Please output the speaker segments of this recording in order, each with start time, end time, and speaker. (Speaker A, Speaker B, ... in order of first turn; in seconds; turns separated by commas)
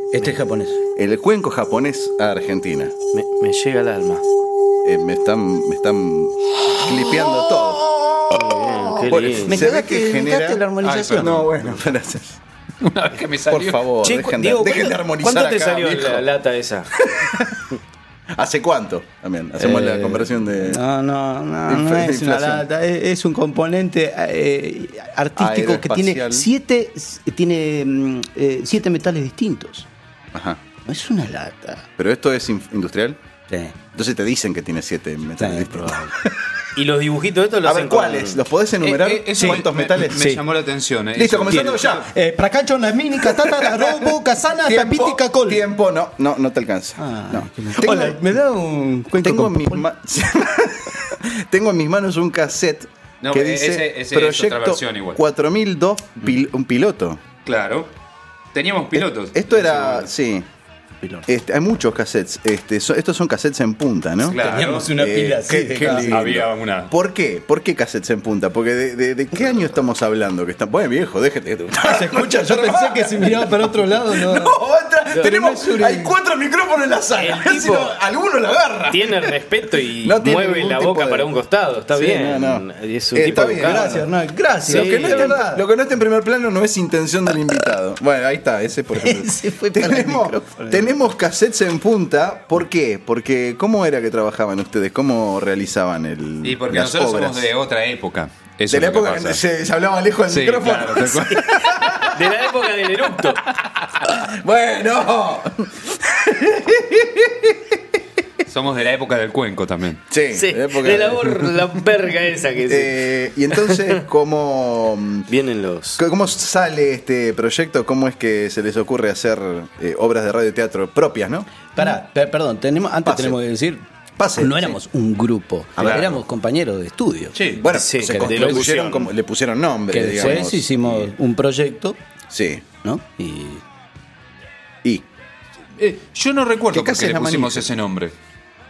Speaker A: 0.1-0.8, Speaker B: 1.0-2.9, Speaker C: 3.1-4.2, Speaker B: 4.8-7.8, Speaker C: 8.3-9.6, Speaker B: 9.0-12.4, Speaker A: 9.4-11.7, Speaker D: 10.8-11.4, Speaker D: 12.8-13.9, Speaker B: 13.4-16.3, Speaker C: 14.0-16.9, Speaker B: 17.1-17.6, Speaker B: 18.4-20.8, Speaker A: 19.6-20.1, Speaker A: 20.6-29.9, Speaker B: 21.7-22.6, Speaker B: 25.4-26.5, Speaker B: 30.3-30.6, Speaker A: 30.9-31.9, Speaker B: 32.0-33.2, Speaker A: 33.5-33.8, Speaker B: 33.9-36.3, Speaker A: 35.4-36.1, Speaker C: 36.8-38.4, Speaker B: 37.6-40.4, Speaker D: 38.8-41.9, Speaker A: 39.4-40.4, Speaker B: 41.1-42.1, Speaker A: 41.5-45.6, Speaker B: 43.2-48.3, Speaker A: 47.0-49.9, Speaker B: 49.1-57.2, Speaker D: 53.2-55.2, Speaker D: 57.5-57.9, Speaker D: 58.5-60.1, Speaker B: 59.0-60.5, Speaker B: 61.3-79.3, Speaker D: 64.3-64.9, Speaker A: 64.4-66.2, Speaker D: 65.9-66.9, Speaker A: 71.8-74.6, Speaker A: 75.2-76.1, Speaker C: 75.2-75.5, Speaker C: 77.1-78.0, Speaker C: 78.9-84.0, Speaker B: 80.0-81.3, Speaker B: 81.9-84.1, Speaker A: 83.6-85.6, Speaker C: 84.7-85.4, Speaker B: 84.7-97.5, Speaker A: 89.0-90.9, Speaker D: 96.4-99.4, Speaker B: 98.7-102.1, Speaker D: 100.3-101.5, Speaker C: 102.1-103.4, Speaker B: 104.0-107.7, Speaker D: 108.5-110.0, Speaker B: 110.1-111.4, Speaker C: 110.3-113.0, Speaker B: 112.7-115.3, Speaker C: 113.6-114.0, Speaker C: 115.3-116.0, Speaker B: 116.0-121.5, Speaker A: 121.8-123.8, Speaker B: 123.0-123.4, Speaker B: 124.2-124.8, Speaker A: 124.4-127.4, Speaker B: 125.8-126.1, Speaker D: 125.8-126.1, Speaker D: 127.3-127.7, Speaker B: 127.5-131.1, Speaker C: 127.8-129.1, Speaker A: 128.0-128.7, Speaker A: 129.9-132.0, Speaker B: 132.3-132.7, Speaker A: 132.8-133.6, Speaker D: 135.8-138.1, Speaker B: 136.7-137.7